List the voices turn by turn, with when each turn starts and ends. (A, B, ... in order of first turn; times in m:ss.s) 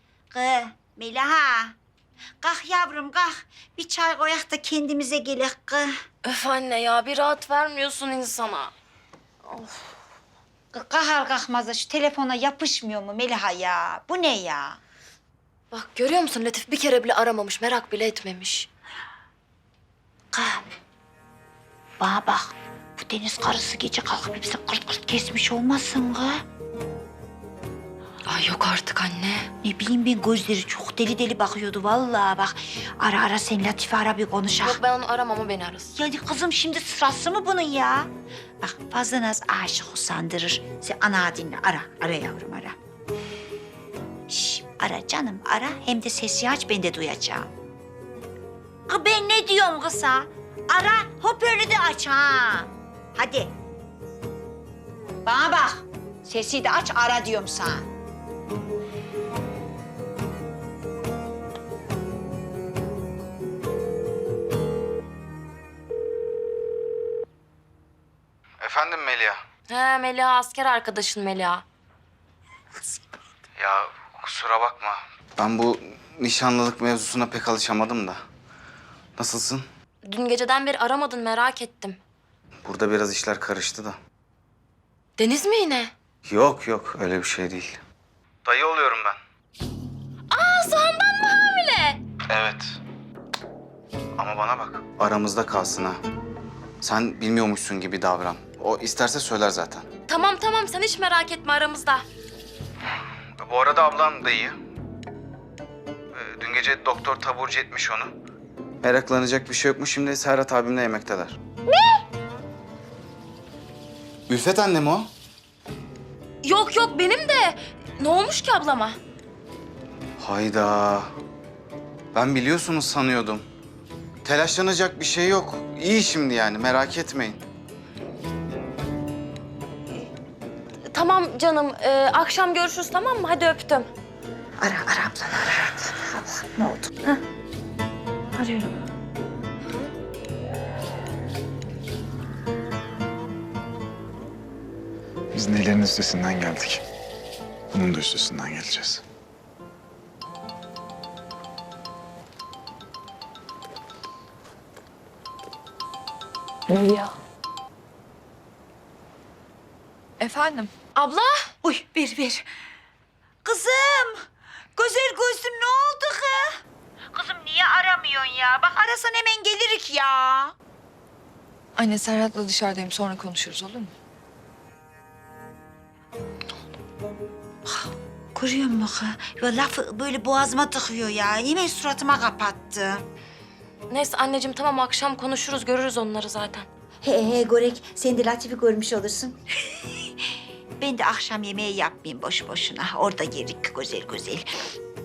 0:00.3-0:01.7 A
0:02.4-0:05.9 A
0:06.2-0:08.7 B
0:09.5-0:09.8 B
0:10.7-0:14.8 A
0:15.7-0:18.7 B
0:20.3-0:20.6 A
0:22.0-0:26.4 A
0:28.3-0:29.5 B
0:29.6-0:34.8 A
0:34.6-0:35.9 B
0:35.9-0:38.1 A
0:38.6-0:42.8 A
0:44.3-0:47.5 A
0:48.9-0:53.5 A
0:55.2-0:57.8 A
1:08.6-1:09.4 C
1:09.7-1:11.6 B
1:13.6-1:18.2 C
1:19.2-1:19.6 C
1:20.0-1:22.0 B
1:22.6-1:24.0 C
1:25.2-1:25.9 B
1:26.2-1:27.8 C
1:28.4-1:29.2 C
1:30.3-1:32.0 B
1:32.3-1:32.7 C
1:34.2-1:36.0 C
1:36.8-1:39.8 C
1:40.1-1:42.0 B
1:43.4-1:44.6 C
1:46.1-1:48.1 C
1:48.8-1:51.4 C
1:51.7-1:52.0 B
1:54.3-1:55.1 C
1:56.4-1:59.0 B
2:00.2-2:01.1 C
2:02.1-2:03.4 C
2:04.2-2:07.4 C
2:10.9-2:13.9 B
2:14.6-2:17.2 A
2:18.4-2:18.7 A
2:25.3-2:26.8 D
2:27.7-2:29.0 D
2:36.7-2:37.1 E
2:40.2-2:40.7 E
2:40.9-2:41.3 B
2:41.6-2:42.4 A
2:43.4-2:44.2 A
2:44.8-2:46.5 A
2:47.1-2:50.5 A
2:51.8-2:53.9 E
2:57.6-3:03.0 A
3:03.9-3:06.7 B
3:07.0-3:09.4 A
3:10.8-3:14.4 A